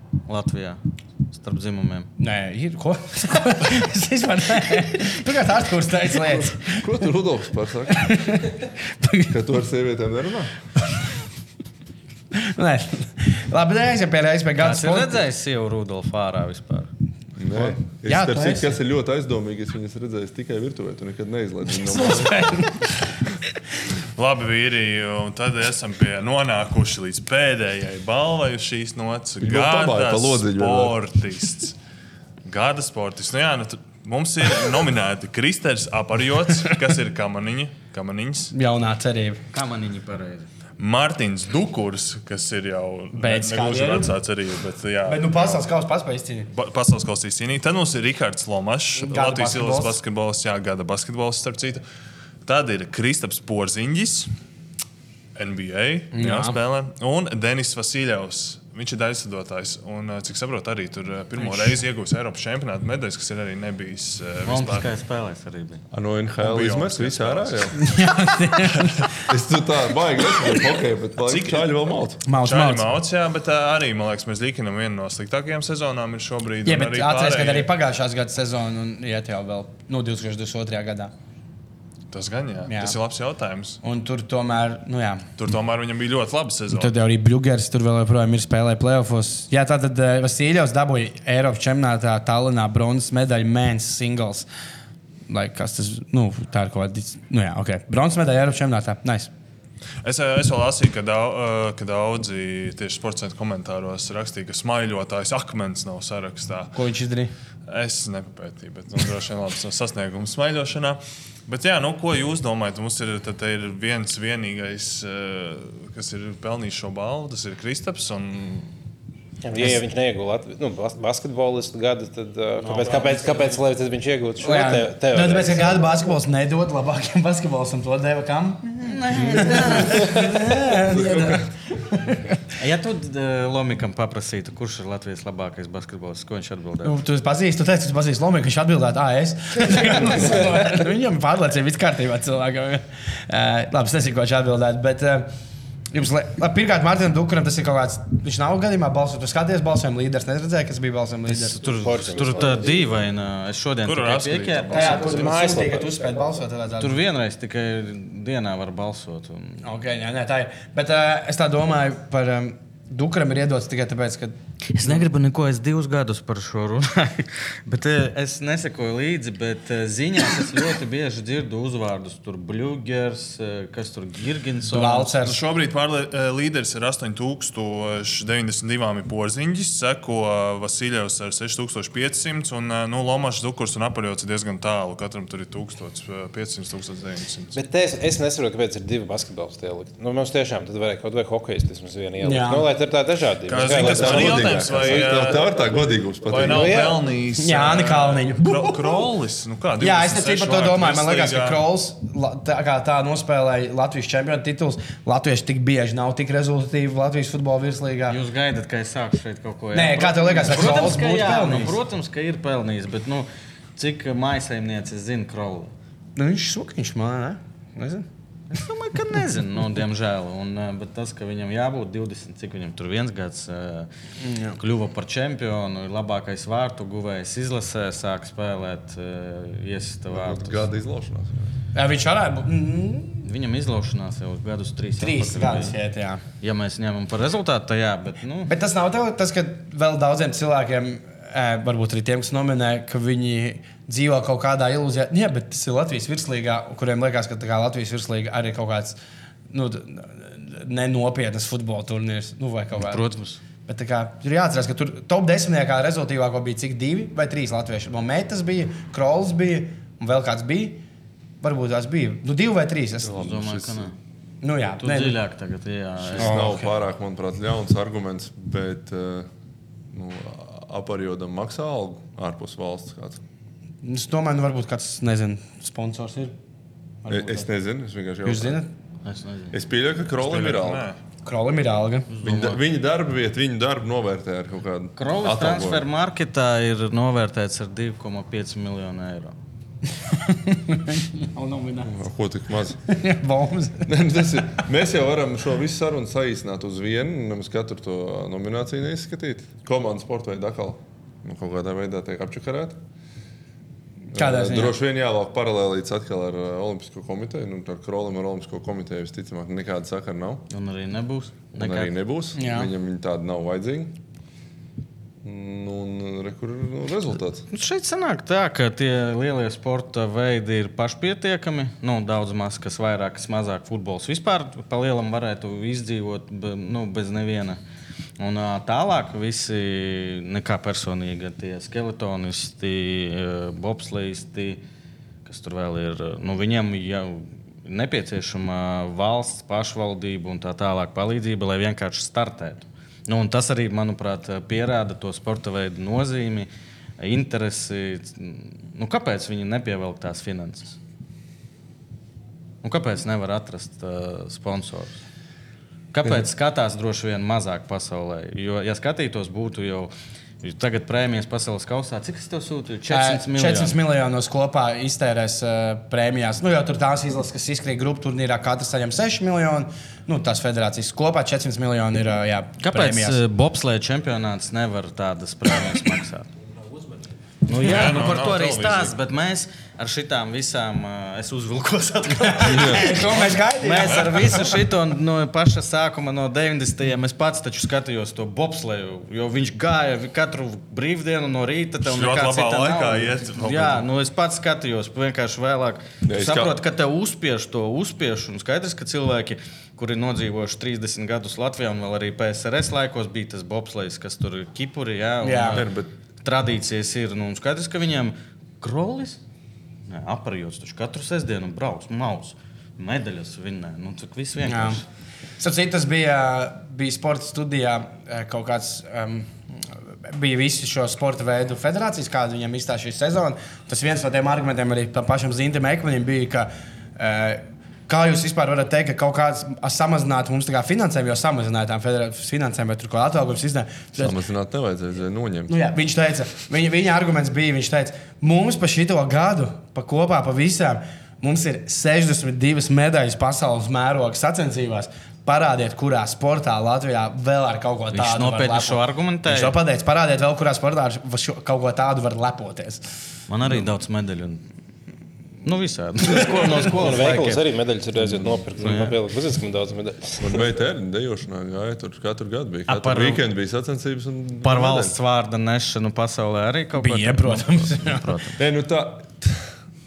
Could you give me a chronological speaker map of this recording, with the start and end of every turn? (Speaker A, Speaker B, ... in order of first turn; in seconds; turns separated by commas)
Speaker A: 0.3-2.1, Speaker B: 2.2-7.1, Speaker C: 6.2-8.3, Speaker B: 7.9-9.3, Speaker C: 9.3-10.5, Speaker B: 12.3-15.2, Speaker A: 14.6-16.9, Speaker C: 17.4-22.4, Speaker B: 17.5-18.8, Speaker B: 21.7-23.0, Speaker D: 24.1-31.8, Speaker C: 29.4-31.0, Speaker D: 32.4-38.5, Speaker B: 38.5-39.4, Speaker A: 39.5-40.5, Speaker D: 40.8-45.6, Speaker B: 43.1-44.1, Speaker B: 45.0-46.5, Speaker D: 46.5-51.8, Speaker B: 49.0-50.0, Speaker D: 52.4-54.3, Speaker D: 55.3-64.9, Speaker B: 56.1-56.5, Speaker A: 64.4-65.8, Speaker C: 65.9-67.8, Speaker D: 66.4-67.7, Speaker B: 67.8-69.2, Speaker D: 68.6-69.0, Speaker C: 69.3-72.2, Speaker D: 71.2-71.8, Speaker B: 72.2-72.9, Speaker D: 72.4-77.7, Speaker B: 76.7-81.1, Speaker D: 82.1-83.8, Speaker B: 82.7-83.0, Speaker B: 83.8-85.3, Speaker D: 85.4-86.9, Speaker B: 86.7-94.5, Speaker B: 95.3-99.3, Speaker D: 100.0-106.8, Speaker B: 106.7-107.3, Speaker D: 107.7-118.7, Speaker E: 119.4-125.8, Speaker A: 122.7-123.2, Speaker B: 124.4-132.4, Speaker A: 128.8-130.6, Speaker C: 129.3-129.6, Speaker C: 130.9-131.4, Speaker A: 132.6-137.0, Speaker B: 136.8-145.3, Speaker B: 145.9-151.6, Speaker A: 151.3-155.2, Speaker E: 151.7-152.9, Speaker D: 153.8-155.2, Speaker B: 154.7-157.0, Speaker E: 155.0-155.9, Speaker A: 156.8-159.6, Speaker B: 159.6-165.0, Speaker A: 164.7-175.1, Speaker B: 174.7-175.4, Speaker D: 175.2-187.6, Speaker E: 187.5-195.4, Speaker B: 192.2-192.7, Speaker D: 193.5-195.4, Speaker C: 193.7-196.8, Speaker D: 196.3-201.6, Speaker E: 196.4-197.0, Speaker B: 197.4-199.1, Speaker B: 199.8-208.2, Speaker A: 208.1-215.7, Speaker B: 209.7-211.8, Speaker B: 216.2-218.1, Speaker A: 218.5-223.9, Speaker B: 224.2-224.6, Speaker A: 224.6-230.7, Speaker C: 230.1-231.5, Speaker B: 231.7-233.2, Speaker A: 233.2-235.8, Speaker B: 235.0-236.2, Speaker A: 236.4-238.5, Speaker B: 238.4-249.0, Speaker B: 249.5-253.0, Speaker A: 252.7-253.4, Speaker B: 253.7-260.8, Speaker B: 261.4-263.2, Speaker C: 263.0-263.9, Speaker A: 263.1-263.9, Speaker B: 264.4-265.2, Speaker A: 264.8-266.6, Speaker C: 266.0-269.3, Speaker B: 266.2-266.7, Speaker C: 269.9-273.2, Speaker B: 273.8-276.3, Speaker B: 277.0-277.5, Speaker C: 277.1-278.6, Speaker B: 278.2-278.7, Speaker A: 279.0-279.6, Speaker C: 279.5-280.9, Speaker D: 280.2-281.0, Speaker B: 281.2-282.1, Speaker A: 282.1-282.6, Speaker C: 282.2-285.9, Speaker A: 285.0-289.4, Speaker B: 290.1-292.0, Speaker C: 291.8-292.8, Speaker B: 292.9-294.0, Speaker C: 293.8-302.8, Speaker C: 304.1-310.4, Speaker B: 304.1-304.8, Speaker A: 310.5-311.9, Speaker C: 311.6-314.0, Speaker B: 312.4-312.7, Speaker C: 315.2-317.4, Speaker A: 317.5-327.6, Speaker A: 328.2-334.6, Speaker A: 335.2-346.5, Speaker A: 347.0-350.8, Speaker A: 352.6-355.0, Speaker A: 355.9-363.8, Speaker B: 362.9-373.2, Speaker A: 372.6-376.3, Speaker A: 377.5-405.7, Speaker D: 377.6-378.9, Speaker B: 382.3-384.6, Speaker C: 382.4-382.9, Speaker D: 383.8-384.2, Speaker D: 391.8-393.9, Speaker C: 396.0-396.6, Speaker B: 405.2-405.6, Speaker C: 405.5-405.9, Speaker A: 406.2-409.2, Speaker A: 409.9-414.8, Speaker B: 414.4-414.8, Speaker B: 415.4-419.3, Speaker B: 420.1-434.1, Speaker C: 434.0-435.6, Speaker B: 435.5-452.9, Speaker A: 447.9-449.5, Speaker A: 453.3-454.4, Speaker A: 455.4-457.4, Speaker E: 456.5-460.5, Speaker C: 458.0-458.2, Speaker A: 458.6-458.9, Speaker C: 460.2-465.0, Speaker A: 462.7-463.2, Speaker A: 464.4-468.4, Speaker B: 466.7-468.1, Speaker C: 468.4-469.5